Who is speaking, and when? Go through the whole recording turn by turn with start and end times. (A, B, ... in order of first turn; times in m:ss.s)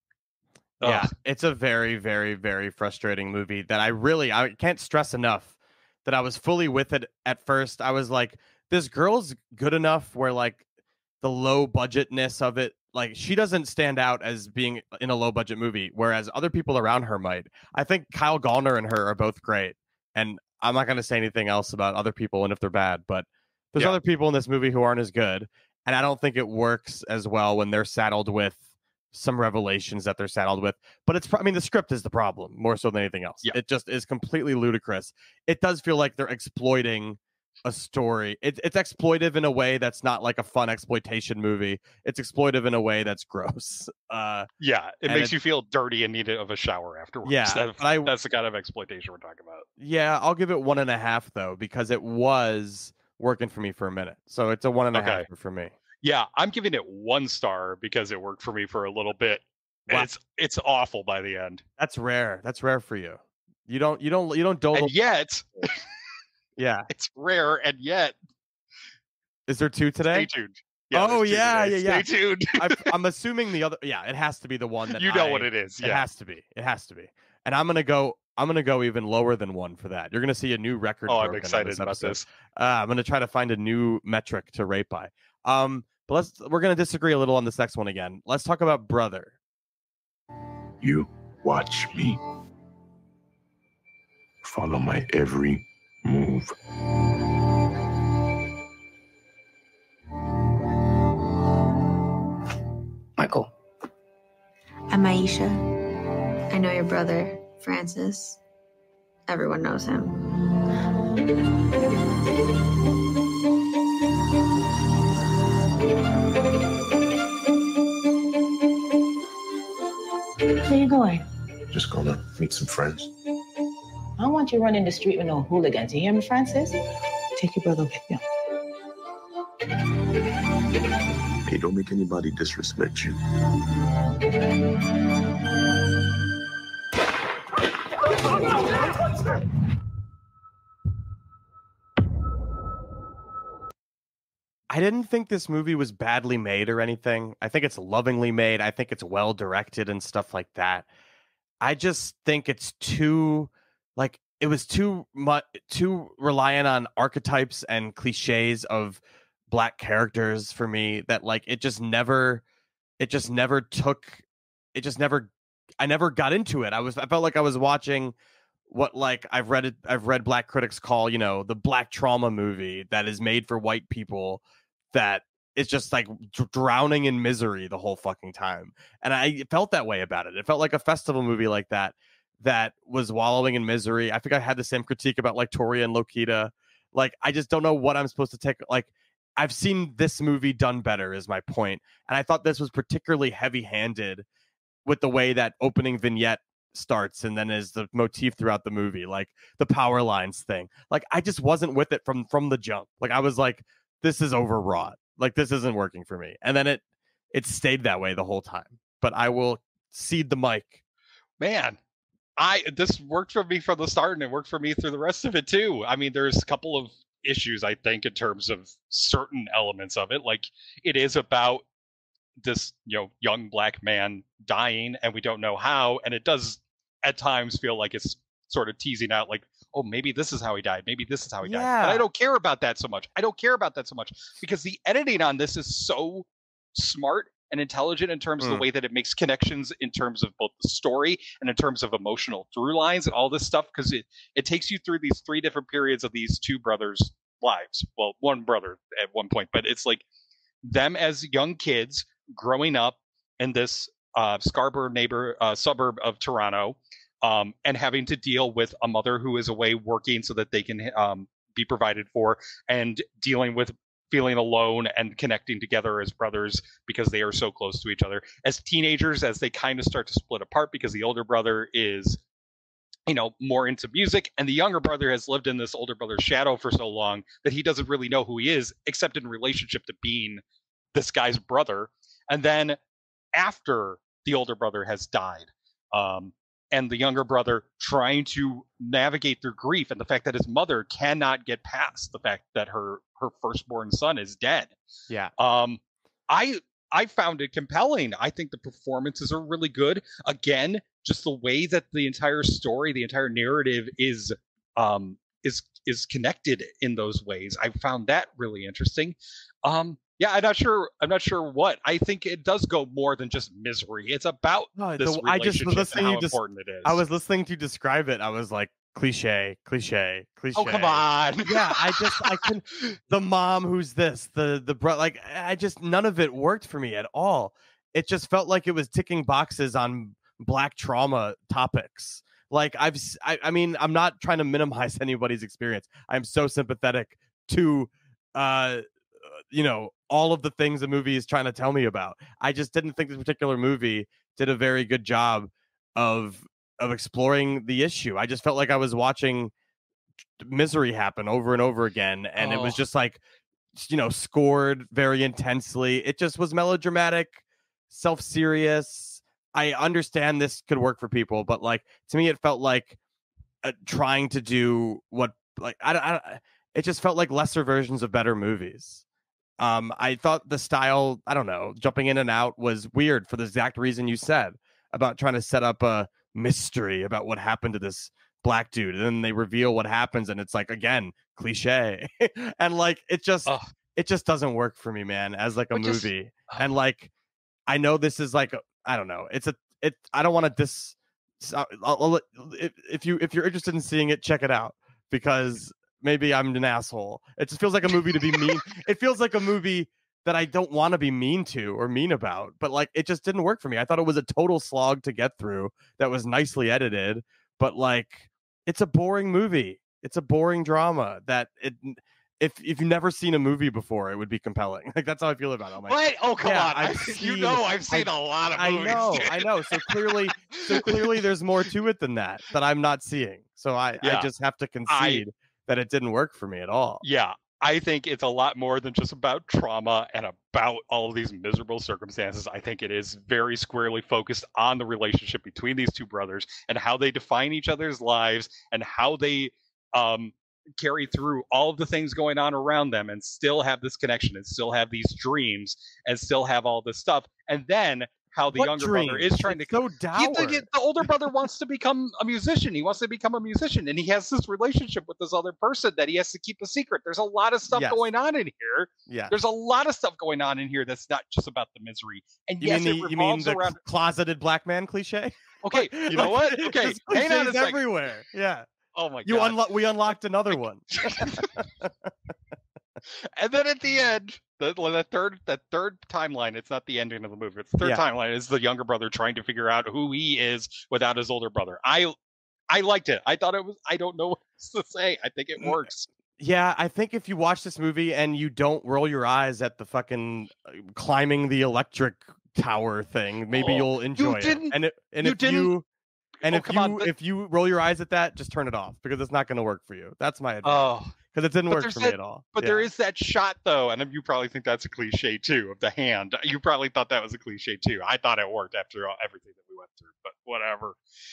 0:00.8-0:01.1 A
0:00.8-0:10.6 B
0:11.2-0:44.5 B
0:44.6-0:49.6 A
0:45.0-0:45.3 B
0:47.2-0:48.1 B
0:49.8-0:55.7 B
0:54.9-0:55.3 A
0:56.0-1:01.6 A
1:01.8-1:04.9 B
1:04.7-1:05.7 A
1:06.6-1:06.9 B
1:06.9-1:08.2 A
1:09.5-1:10.3 B
1:10.1-1:12.8 A
1:10.9-1:29.3 B
1:14.9-1:16.1 A
1:21.1-1:22.3 A
1:30.8-1:32.2 C
1:34.4-1:36.5 C
1:44.9-1:45.6 D
1:46.5-1:48.4 D
1:49.3-1:50.2 D
2:00.6-2:01.2 E
2:01.7-2:03.1 C
2:04.2-2:06.8 E
2:07.4-2:08.2 E
2:11.4-2:13.2 C
2:24.7-2:30.9 B
2:31.6-2:42.4 B
2:43.0-2:48.1 B
2:48.7-3:14.2 B
3:14.8-3:30.8 B
3:31.4-3:31.8 A
3:32.4-3:41.6 A
3:42.4-4:10.0 A
3:51.4-3:52.0 B
3:58.4-3:58.6 B
4:10.6-4:32.2 A
4:33.1-4:40.4 A
4:40.9-4:42.8 A
4:43.3-4:54.7 A
4:55.4-5:17.0 A
5:14.7-5:49.5 B
5:20.5-5:22.2 A
5:50.4-5:53.2 B
5:53.7-6:03.0 B
6:03.6-6:09.0 B
6:09.6-6:27.1 B
6:25.7-6:26.7 A
6:27.7-7:07.0 B
6:55.9-7:01.2 A
7:04.0-7:04.3 A
7:04.9-7:05.2 A
7:07.0-7:43.8 A
7:28.5-7:30.7 B
7:37.7-7:38.0 B
7:39.1-7:39.3 B
7:42.6-7:48.7 B
7:45.6-7:47.8 A
7:48.9-7:49.6 A
7:49.2-7:51.9 B
7:51.0-7:51.5 A
7:53.4-8:02.1 A
8:02.7-8:06.1 A
8:05.6-8:05.8 B
8:06.4-8:15.8 B
8:13.5-8:15.7 A
8:16.4-8:22.9 B
8:16.5-8:17.1 A
8:20.6-8:21.1 A
8:21.7-8:31.0 A